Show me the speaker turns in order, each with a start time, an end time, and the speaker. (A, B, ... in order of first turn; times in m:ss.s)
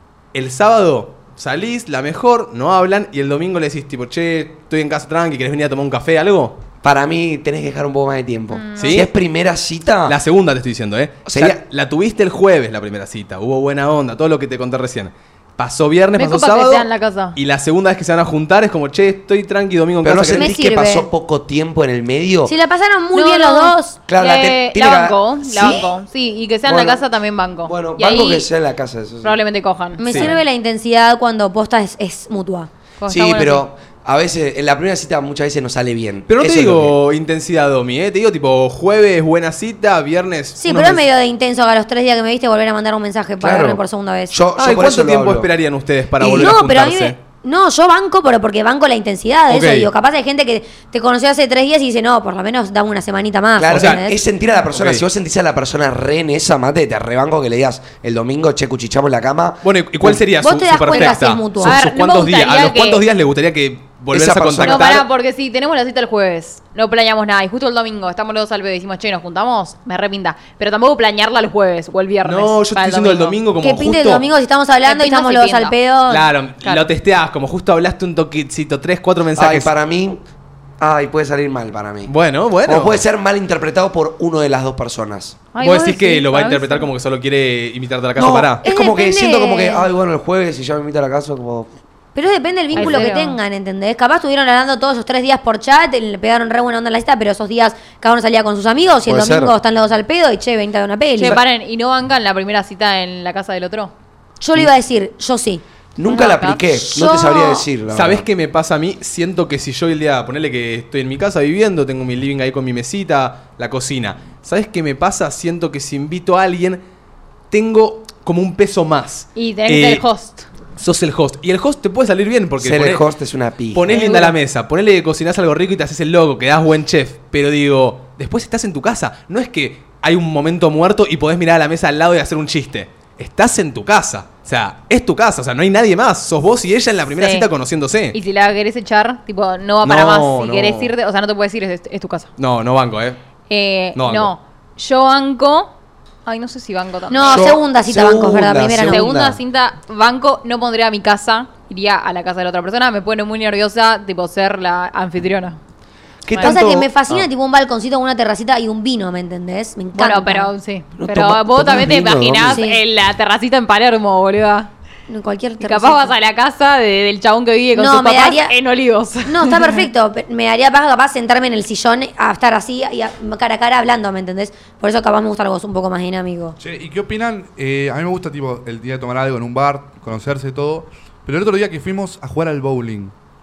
0:00.3-0:06.6 A
0:06.8-0:10.2 B
0:08.5-0:09.1 C
0:08.8-0:09.1 A
0:10.1-0:20.5 A
0:11.2-0:11.6 B
0:16.2-0:17.4 C
0:20.0-0:22.5 B
0:20.3-0:21.1 D
0:22.5-0:24.0 D
0:23.1-0:28.5 C
0:24.1-0:25.9 B
0:26.6-0:27.0 B
0:27.6-0:29.4 B
0:29.2-0:30.4 C
0:30.0-0:32.7 D
0:30.1-0:30.3 A
0:33.0-0:33.6 C
0:33.1-0:37.0 B
0:36.3-0:41.1 A
0:40.6-0:44.3 D
0:43.4-0:45.5 B
0:44.6-0:47.2 A
0:46.2-0:46.6 B
0:46.3-0:54.2 D
0:49.5-0:49.9 A
0:53.6-1:00.2 B
0:53.7-0:54.0 A
0:54.7-0:55.0 A
0:59.6-1:05.1 A
1:00.4-1:01.8 D
1:01.6-1:03.0 C
1:04.1-1:05.0 B
1:04.6-1:13.4 C
1:12.2-1:14.2 A
1:13.6-1:16.3 D
1:14.8-1:15.8 C
1:16.1-1:19.7 A
1:19.4-1:20.2 B
1:20.8-1:22.1 B
1:22.1-1:23.0 A
1:22.7-1:25.4 B
1:25.5-1:26.9 C
1:25.6-1:28.6 A
1:28.2-1:31.7 B
1:28.6-1:29.9 D
1:32.2-1:41.4 D
1:32.7-1:33.1 B
1:32.8-1:33.4 C
1:39.1-1:39.6 B
1:41.2-1:43.9 C
1:44.4-1:45.6 D
1:46.0-1:48.3 B
1:46.1-1:46.6 C
1:46.8-1:47.7 D
1:47.9-1:56.8 A
1:57.5-2:00.0 A
1:59.4-2:00.5 C
2:00.8-2:03.0 A
2:02.6-2:04.0 B
2:03.7-2:18.2 A
2:03.9-2:04.4 C
2:17.2-2:17.5 C
2:18.1-2:22.3 C
2:19.8-2:20.9 A
2:22.4-2:23.2 A
2:23.5-2:25.7 C
2:24.0-2:24.3 A
2:26.3-2:27.4 C
2:27.1-2:29.2 D
2:27.2-2:29.4 B
2:28.9-2:35.6 C
2:36.2-2:37.3 B
2:36.4-2:40.5 D
2:40.0-2:44.7 C
2:41.0-2:42.6 B
2:42.5-2:42.8 D
2:45.1-2:46.1 D
2:45.6-2:49.9 C
2:47.8-2:48.6 D
2:49.3-2:56.6 D
2:56.6-3:03.1 E